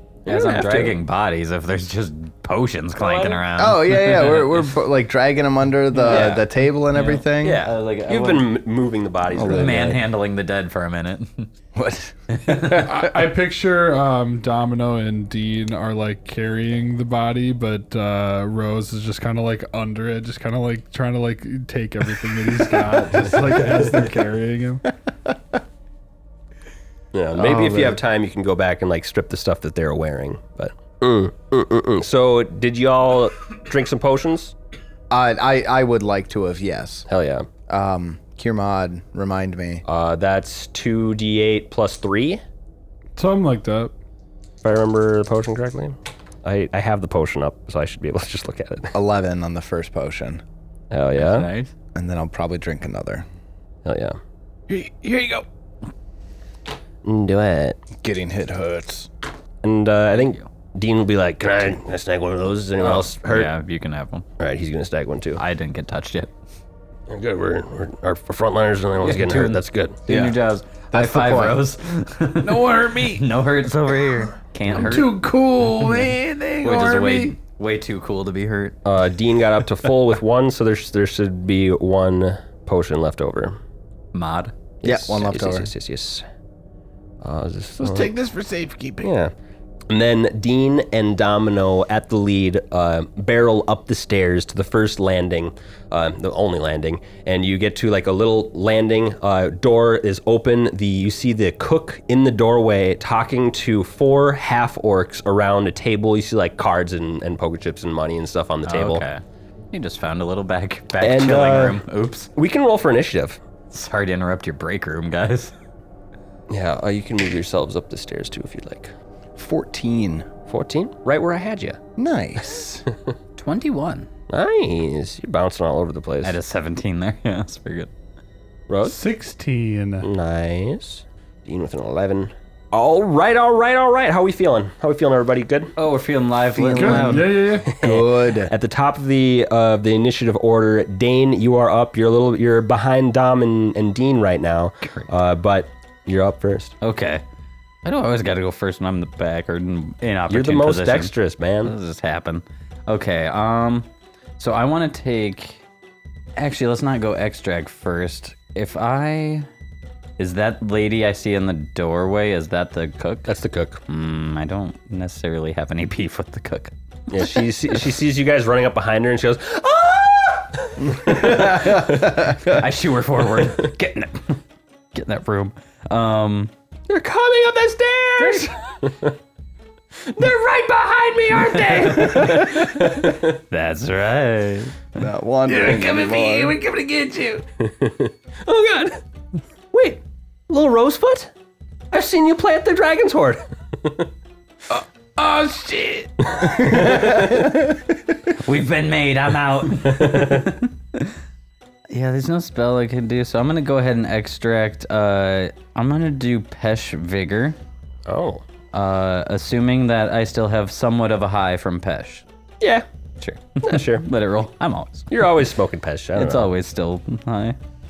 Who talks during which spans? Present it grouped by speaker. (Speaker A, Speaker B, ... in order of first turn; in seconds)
Speaker A: 0.3-1.0, 3.0-3.4, 6.0-6.5, 7.4-9.9, 27.1-34.5, 37.1-37.5, 39.9-42.4, 44.6-49.0, 50.9-51.5, 53.9-54.2, 57.0-57.8, 59.6-63.5, 64.4-65.4, 67.1-70.0, 78.8-83.6, 84.8-86.2, 87.2-88.1, 89.0-89.3, 89.9-109.0, 111.0-111.8, 112.3-113.4, 116.5-118.9, 120.5-121.8, 124.3-126.4, 128.7-129.0, 130.0-135.7, 137.6-146.8, 150.3-151.7, 163.3-163.8, 167.1-172.2, 176.9-179.1, 180.1-183.4, 187.6-189.0, 189.7-191.3, 191.9-194.1, 196.4-197.2, 199.9-200.4, 208.1-208.4, 213.6-214.1, 215.1-216.5
Speaker B: 0.3-4.7, 6.0-6.4, 6.9-8.5, 9.5-11.5, 12.3-12.9, 51.2-51.7, 60.1-60.5, 62.8-64.3, 65.4-66.3, 69.0-75.2, 75.8-78.8, 84.1-84.5, 108.7-112.3, 113.7-115.5, 123.4-124.1, 126.2-127.9, 135.8-137.3, 146.8-147.2, 147.8-151.1, 151.6-153.9, 154.4-155.6, 156.4-159.5, 160.2-163.3, 163.9-166.7, 172.2-174.4, 174.9-176.5, 178.2-178.5, 181.6-184.8, 198.3-201.1, 201.9-207.6, 208.7-212.2, 213.2-215.1, 216.2-217.6
Speaker C: 3.6-7.6, 9.3-10.0, 11.7-13.3, 22.9-24.0, 27.4-28.0, 35.1-37.1, 37.7-39.8, 48.9-50.4, 52.0-53.2, 58.0-59.1, 70.1-70.4, 70.9-71.6, 84.8-85.7, 119.4-120.3, 122.0-122.9, 136.5-138.5, 171.1-171.6, 185.0-186.6
Speaker D: 12.8-24.9, 43.2-43.9, 128.8-130.1, 136.8-137.7
Speaker E: 54.7-55.5, 72.4-73.3, 74.7-77.4, 87.8-89.1, 185.5-187.4, 194.7-197.2